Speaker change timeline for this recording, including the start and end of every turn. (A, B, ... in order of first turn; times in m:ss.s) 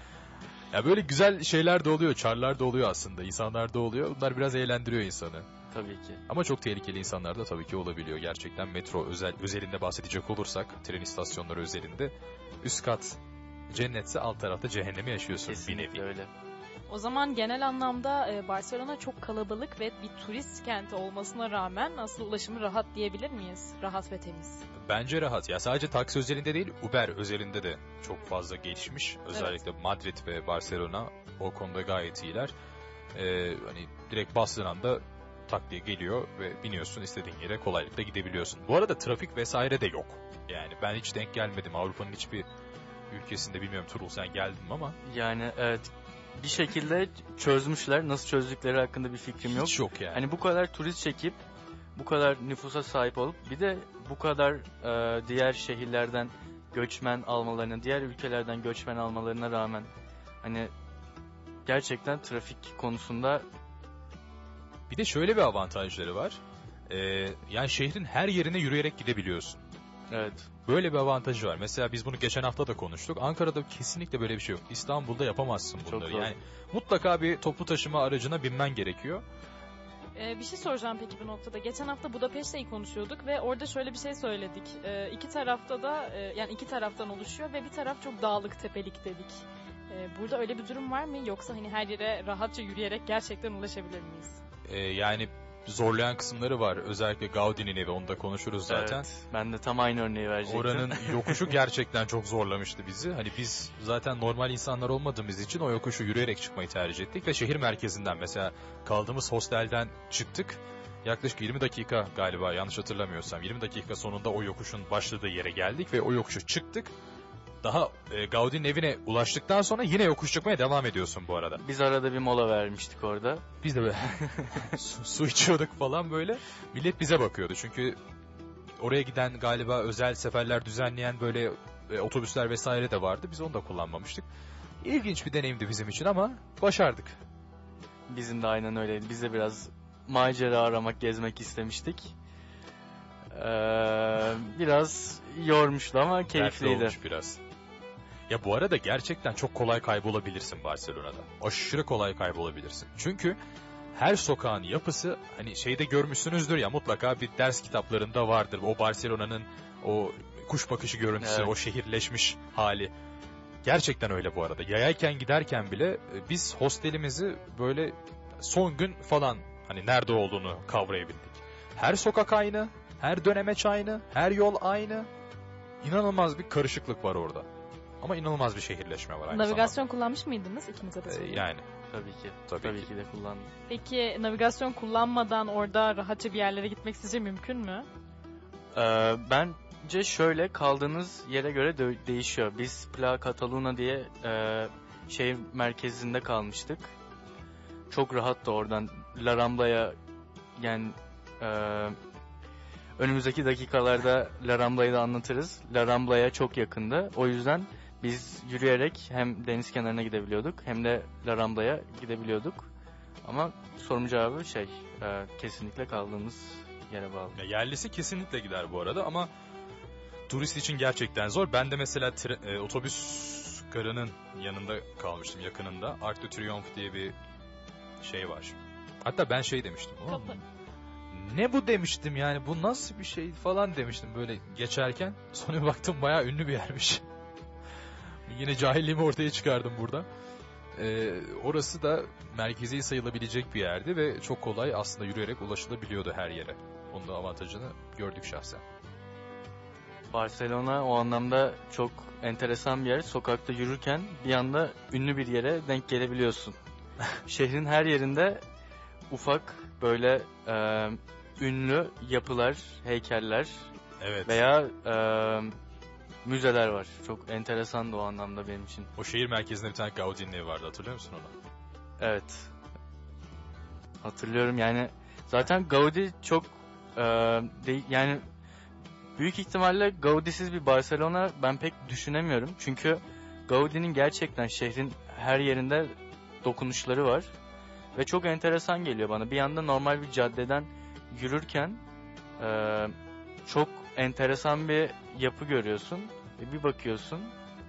0:00.7-0:05.5 A
0:05.7-0:06.2 B
0:06.3-0:16.0 A
0:15.4-0:16.3 B
0:16.9-0:24.6 C
0:24.8-0:32.5 A
0:33.1-0:42.5 A
0:43.1-0:45.0 A
0:45.0-0:51.4 B
0:49.5-0:50.2 A
0:52.0-0:59.9 B
1:00.4-1:00.7 B
1:01.7-1:03.5 B
1:04.9-1:09.6 A
1:10.1-1:10.5 B
1:10.6-1:19.2 A
1:15.8-1:16.3 B
1:20.2-1:34.4 C
1:34.7-1:39.1 A
1:38.7-1:41.5 B
1:40.4-1:56.9 A
1:57.6-2:01.6 A
2:01.6-2:03.5 B
2:03.6-2:08.0 A
2:04.2-2:04.7 B
2:08.8-2:14.3 A
2:14.8-2:17.2 A
2:18.1-2:22.2 B
2:23.3-2:27.0 B
2:26.3-2:27.4 A
2:28.3-2:33.4 A
2:33.9-2:42.9 A
2:41.2-2:41.5 B
2:43.6-2:55.1 A
2:55.8-2:57.5 A
2:58.0-2:59.8 A
2:59.3-3:01.4 C
3:01.1-3:01.7 A
3:01.9-3:03.5 B
3:02.5-3:02.9 A
3:03.7-3:07.9 C
3:08.8-3:17.0 B
3:17.9-3:20.0 B
3:20.6-3:22.0 B
3:23.0-3:32.7 B
3:33.2-3:37.4 B
3:37.4-3:39.3 A
3:40.3-3:47.2 A
3:48.0-3:50.4 A
3:51.1-3:57.0 A
3:58.3-4:00.1 A
4:00.8-4:08.6 A
4:10.1-4:16.6 B
4:17.2-4:18.4 B
4:19.1-4:23.7 B
4:24.0-4:24.4 A
4:24.3-4:25.6 B
4:26.2-4:28.9 B
4:29.0-4:31.3 A
4:32.0-4:32.5 B
4:34.0-4:38.3 B
4:39.2-4:47.3 B
4:48.0-4:51.8 B
4:52.4-4:53.0 B
4:53.5-4:57.4 B